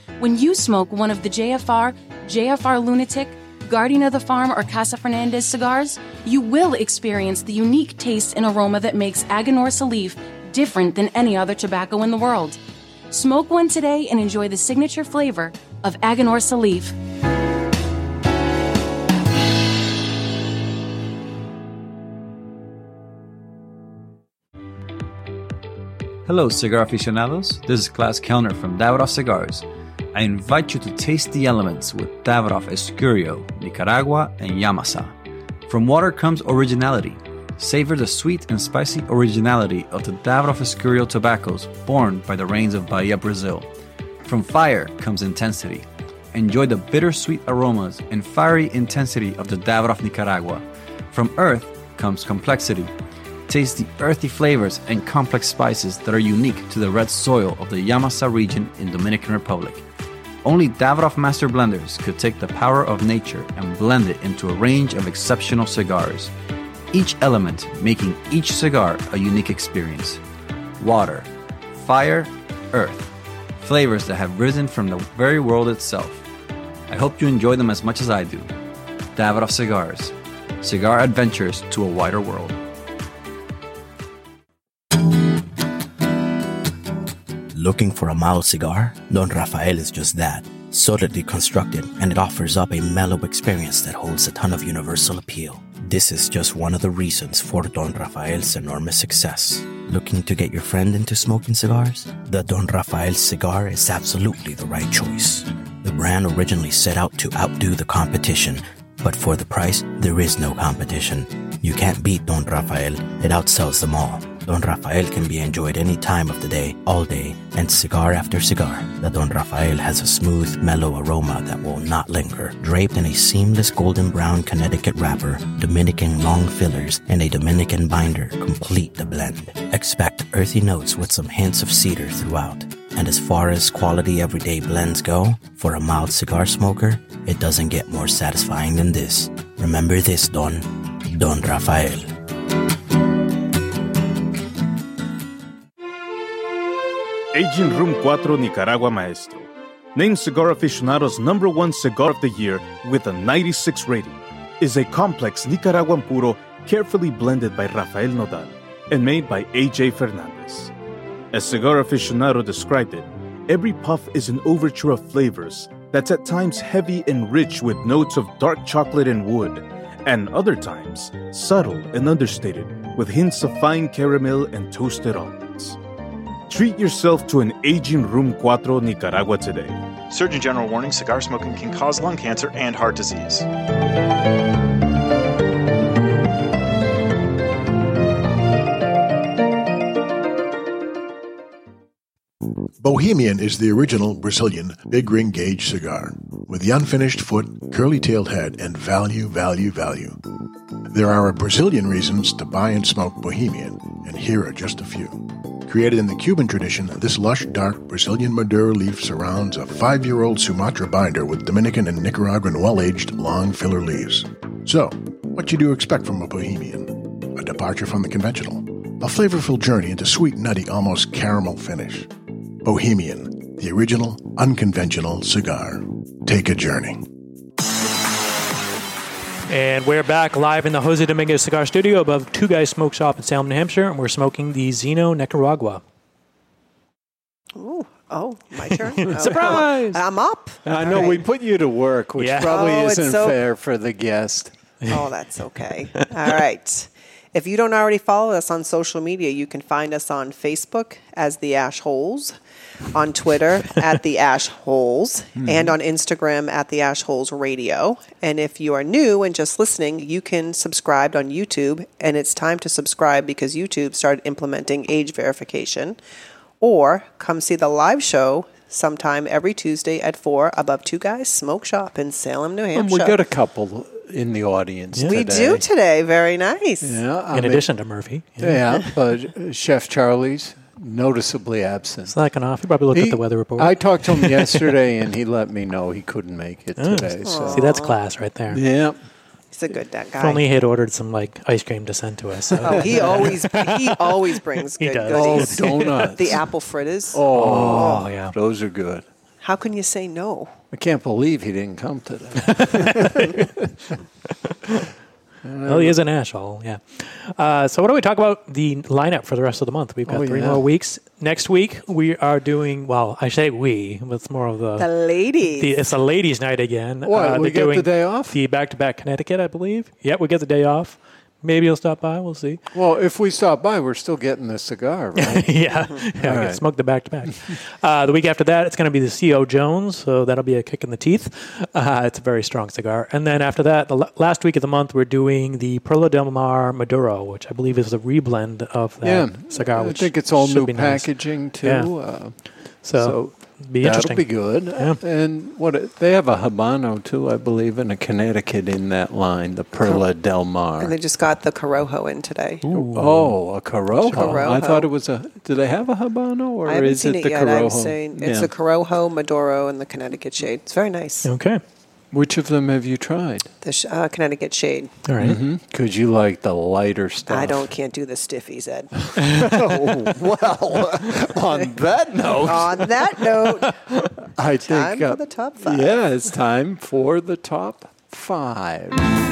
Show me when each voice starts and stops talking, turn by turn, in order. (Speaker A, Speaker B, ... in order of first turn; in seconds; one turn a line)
Speaker A: 0.2-12.6
Speaker A: 13.1-16.9
Speaker B: 26.2-35.1
Speaker B: 35.7-43.7
Speaker B: 44.2-52.9
Speaker B: 53.5-59.9
Speaker B: 60.4-66.3
Speaker B: 66.9-70.2
Speaker B: 70.8-76.2
Speaker B: 76.9-78.5
Speaker B: 79.1-82.6
Speaker C: 87.5-142.1
Speaker D: 147.3-160.7
Speaker D: 161.3-175.8
Speaker D: 176.5-179.8
Speaker E: 180.1-183.5
Speaker F: 192.8-200.2
Speaker F: 200.9-222.1
Speaker F: 222.6-227.1
Speaker G: 229.5-235.8
Speaker H: 237.6-241.2
Speaker G: 239.0-240.0
Speaker I: 239.2-239.8
Speaker I: 240.6-244.5
Speaker G: 242.2-242.5
Speaker H: 242.4-243.4
Speaker H: 244.9-252.3
Speaker H: 252.9-266.0
Speaker I: 255.4-255.7
Speaker H: 266.6-273.2
Speaker I: 272.7-275.6
Speaker H: 275.1-277.0
Speaker I: 276.8-277.7
Speaker G: 277.3-278.8
Speaker I: 278.4-282.1
Speaker G: 282.1-284.7
Speaker I: 282.9-287.8
Speaker G: 286.8-288.6
Speaker H: 287.2-287.9
Speaker I: 288.5-289.0
Speaker H: 289.5-290.4
Speaker G: 290.2-294.2
Speaker H: 292.6-298.1
Speaker I: 292.6-293.3
Speaker G: 294.8-296.1
Speaker I: 295.1-296.4
Speaker I: 297.1-299.1
Speaker G: 297.3-298.3
Speaker H: 299.4-300.5
Speaker I: 300.7-303.8
Speaker G: 302.4-303.5
Speaker G: 304.4-304.9
Speaker I: 305.4-306.0
Speaker G: 305.6-314.9
Speaker I: 310.1-310.6
Speaker H: 314.8-315.8
Speaker G: 315.5-322.6
Speaker I: 317.0-318.4
Speaker I: 322.7-326.6
Speaker G: 325.1-341.9
Speaker I: 339.0-342.4
Speaker G: 342.8-345.0
Speaker I: 342.9-350.9
Speaker H: 350.8-352.7
Speaker G: 352.6-353.4
Speaker I: 352.9-358.5
Speaker G: 354.0-354.5
Speaker H: 354.1-354.9
Speaker H: 356.6-361.3
Speaker G: 361.2-361.6
Speaker I: 362.1-363.5
Speaker H: 363.6-364.9
Speaker G: 365.1-365.4
Speaker I: 365.2-367.7
Speaker H: 367.3-369.1
Speaker I: 369.1-373.6
Speaker G: 369.2-370.0
Speaker H: 372.4-373.8
Speaker I: 374.2-379.0
Speaker H: 374.6-376.0